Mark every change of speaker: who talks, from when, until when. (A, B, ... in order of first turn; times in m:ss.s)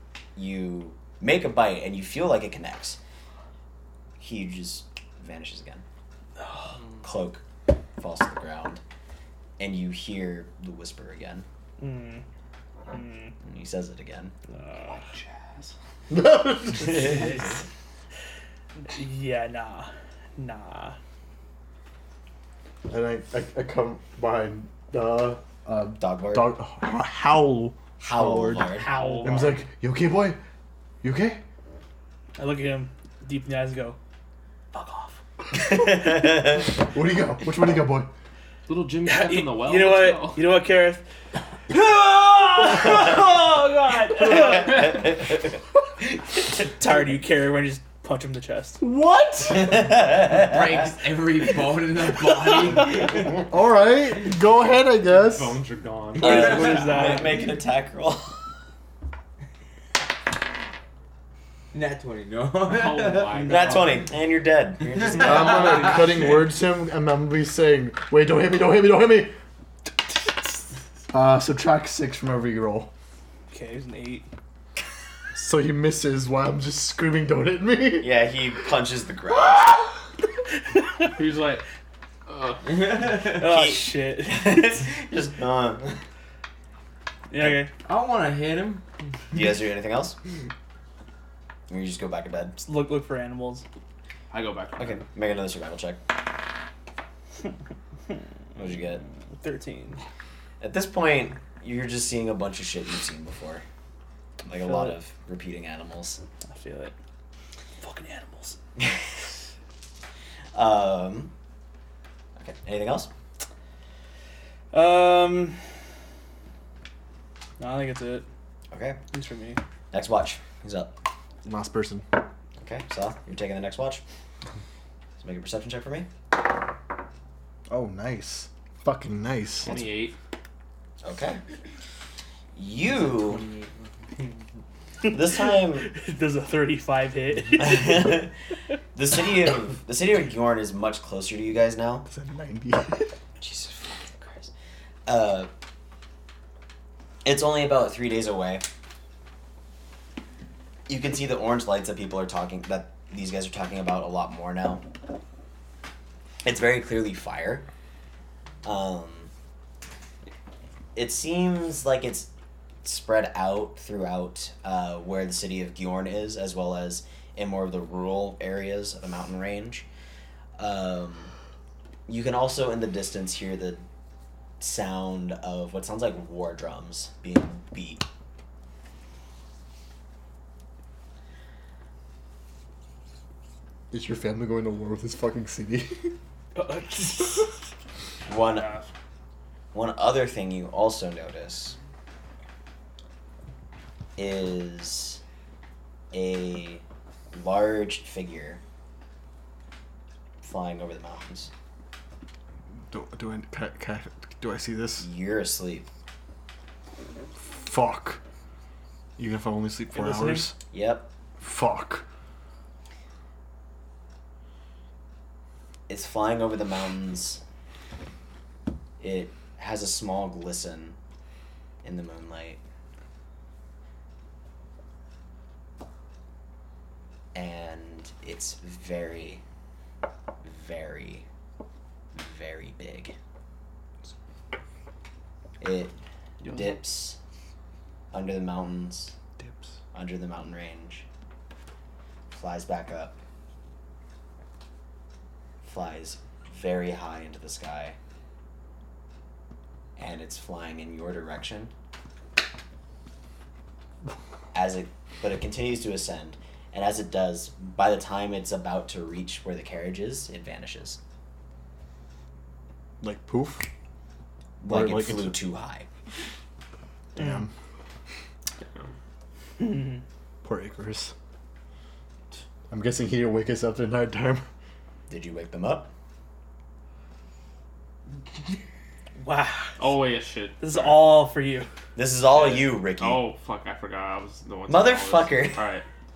0:00.4-0:03.0 A
0:04.2-0:05.8 A
0:06.4-0:06.8 B
0:07.0-0:07.4 A
0:08.0-0:08.8 A
0:09.6-0:11.5 A
0:11.8-0:12.2 B
0:12.9-0:13.4 B
0:13.4-0:14.3 A
0:14.5-0:15.0 B
0:14.8-0:15.7 C
0:16.1-0:17.3 D
0:16.8-0:17.6 B
0:18.9-0:21.0 B
0:22.9-0:30.4 D
0:26.0-0:26.5 A
0:28.0-0:29.0 A
0:28.8-0:29.6 B
0:28.9-0:29.4 C
0:31.0-0:31.4 D
0:32.4-0:34.0 B
0:34.7-0:35.2 B
0:35.5-0:36.8 A
0:36.6-0:38.1 D
0:38.7-0:40.5 C
0:39.0-0:41.0 B
0:41.7-0:45.2 B
0:44.2-0:45.5 A
0:46.5-0:48.8 B
0:48.8-0:49.8 D
0:49.5-0:50.6 A
0:50.3-0:53.4 E
0:52.2-0:53.1 B
0:53.4-0:55.6 D
0:55.1-0:57.2 C
0:56.2-0:57.4 B
0:56.2-0:58.4 A
0:56.3-0:57.0 E
1:01.7-1:03.7 E
1:02.6-1:04.1 C
1:03.4-1:05.9 A
1:05.1-1:09.4 D
1:10.1-1:10.5 D
1:11.1-1:12.9 D
1:13.5-1:14.3 B
1:15.4-1:18.2 D
1:18.0-1:19.8 A
1:20.8-1:21.1 B
1:21.1-1:21.6 C
1:22.3-1:23.0 C
1:22.6-1:23.3 E
1:23.2-1:24.8 B
1:23.3-1:26.0 A
1:27.3-1:27.7 B
1:27.8-1:28.8 E
1:29.3-1:30.2 A
1:31.7-1:32.6 A
1:32.6-1:33.6 B
1:34.3-1:35.1 C
1:34.8-1:36.1 A
1:38.6-1:39.0 A
1:39.4-1:40.0 B
1:40.6-1:43.6 A
1:44.4-1:46.2 A
1:44.5-1:45.0 B
1:46.4-1:46.9 B
1:47.8-1:48.6 B
1:48.8-1:49.0 A
1:50.5-1:51.3 A
1:52.4-1:53.1 A
1:54.7-1:55.6 B
1:57.6-1:58.3 B
1:58.7-1:59.0 A
1:59.1-1:59.6 B
1:59.9-2:01.0 A
2:01.4-2:02.1 D
2:02.6-2:04.0 A
2:05.2-2:06.1 A
2:07.7-2:09.8 D
2:09.6-2:10.2 C
2:11.0-2:11.4 A
2:12.6-2:13.4 A
2:12.8-2:14.4 E
2:15.0-2:15.9 A
2:15.7-2:18.2 B
2:17.6-2:18.3 A
2:18.9-2:22.1 A
2:22.1-2:23.1 D
2:23.4-2:24.5 A
2:25.1-2:25.5 A
2:27.2-2:28.6 A
2:30.9-2:34.8 A
2:36.4-2:37.6 A
2:38.6-2:39.3 A
2:41.0-2:42.3 A
2:42.8-2:49.8 A
2:50.6-2:51.3 A
2:52.1-2:53.8 A
2:54.6-2:58.0 A
3:03.9-3:06.2 D
3:06.6-3:07.6 B
3:08.3-3:08.9 C
3:08.3-3:08.7 A
3:09.7-3:11.8 A
3:14.2-3:15.2 A
3:16.1-3:18.6 A
3:20.4-3:21.5 A
3:22.9-3:25.1 D
3:25.0-3:25.9 A
3:27.4-3:28.2 D
3:29.2-3:30.6 D
3:29.9-3:30.5 B
3:30.7-3:31.1 A
3:31.4-3:32.0 D
3:35.9-3:37.4 A
3:39.0-3:41.0 A
3:41.8-3:42.6 A
3:47.3-3:49.4 A
3:50.4-3:51.3 A
3:52.2-3:53.2 A
3:55.6-3:57.2 A
3:56.4-3:56.8 C
3:58.1-3:59.1 A
3:59.9-4:01.1 A
4:02.3-4:03.2 A
4:05.6-4:08.0 A
4:10.0-4:11.7 A
4:14.5-4:21.0 A
4:23.0-4:23.7 D
4:24.6-4:25.9 A
4:24.7-4:25.4 D
4:27.2-4:27.5 D
4:27.2-4:27.4 B
4:28.6-4:28.9 C
4:29.6-4:30.0 B
4:30.4-4:31.1 D
4:32.7-4:34.5 D
4:35.1-4:35.9 A
4:39.2-4:39.8 B
4:39.8-4:41.2 C
4:40.6-4:41.7 B
4:42.0-4:43.3 A
4:42.3-4:45.9 C
4:44.7-4:45.6 A